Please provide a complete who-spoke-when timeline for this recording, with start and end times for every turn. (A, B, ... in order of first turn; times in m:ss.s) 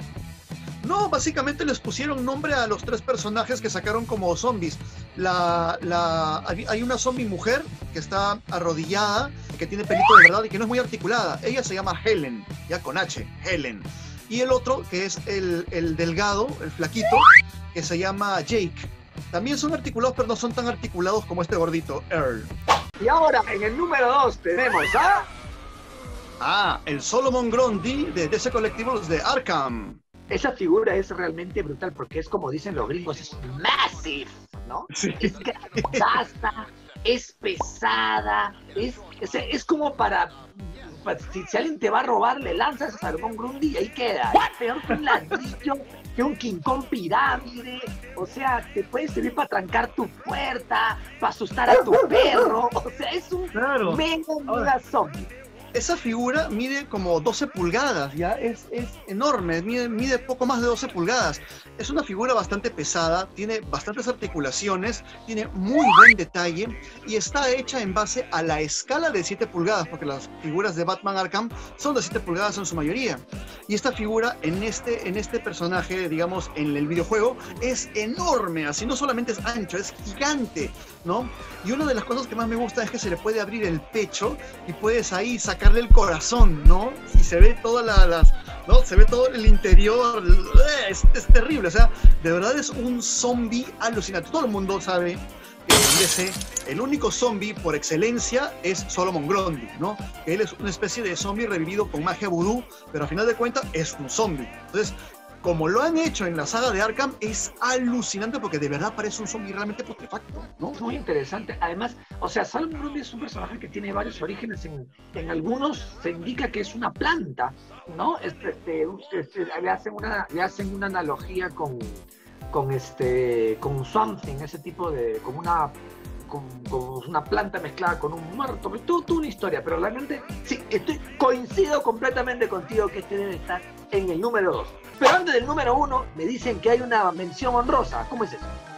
0:00.8-0:22.5 A
0:23.0-0:25.3 B
0:26.4-0:30.0 A
0:30.3-0:55.3 B
0:34.9-0:36.1 A
0:53.5-0:54.7 A
0:55.7-1:50.8 A
1:50.8-2:05.8 B
2:06.3-2:18.6 B